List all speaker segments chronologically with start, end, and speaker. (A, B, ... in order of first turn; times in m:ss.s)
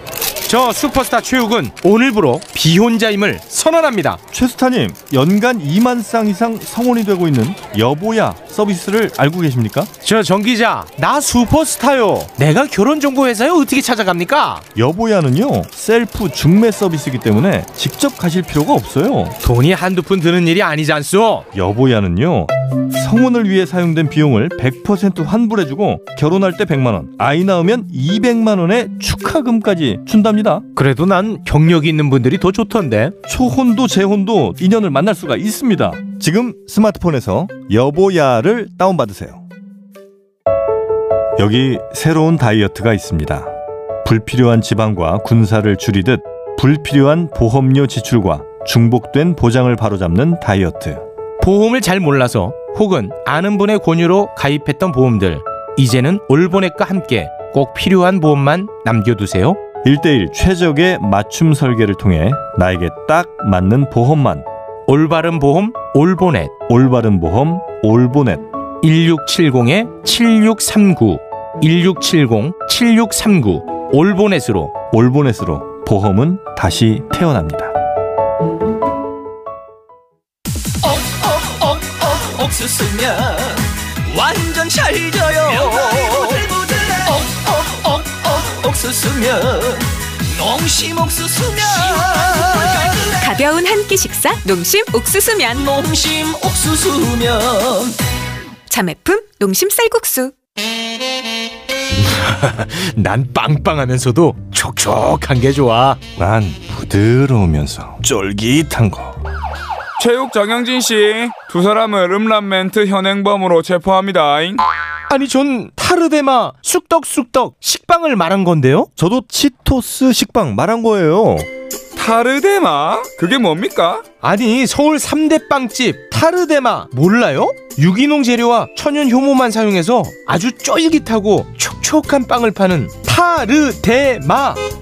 0:00.5-0:04.2 A
0:04.3-0:09.9 B
0:10.0-0:14.7 A
0:14.8-0:19.4 B
0:19.4-0:21.5 A
0:21.5-0:30.6 B
0:30.8-0:33.2 A
0:33.3-0:39.4 B
0:41.4-0:43.5 B
0:44.0-0:51.0 B
0:51.4-0:59.6 A
0:59.8-1:04.5 B
1:04.9-1:06.6 A
1:06.7-1:08.5 B
1:08.8-1:14.8 A
1:14.9-1:17.7 B
1:20.8-1:33.3 C
1:33.2-1:35.6 D
1:35.5-1:38.0 C
1:38.7-1:40.3 D
1:42.0-1:46.1 A
1:46.2-1:49.2 B
1:50.0-1:54.6 E
1:55.1-1:58.9 A
1:59.0-2:01.5 B
2:02.0-2:04.1 E
2:04.2-2:14.6 A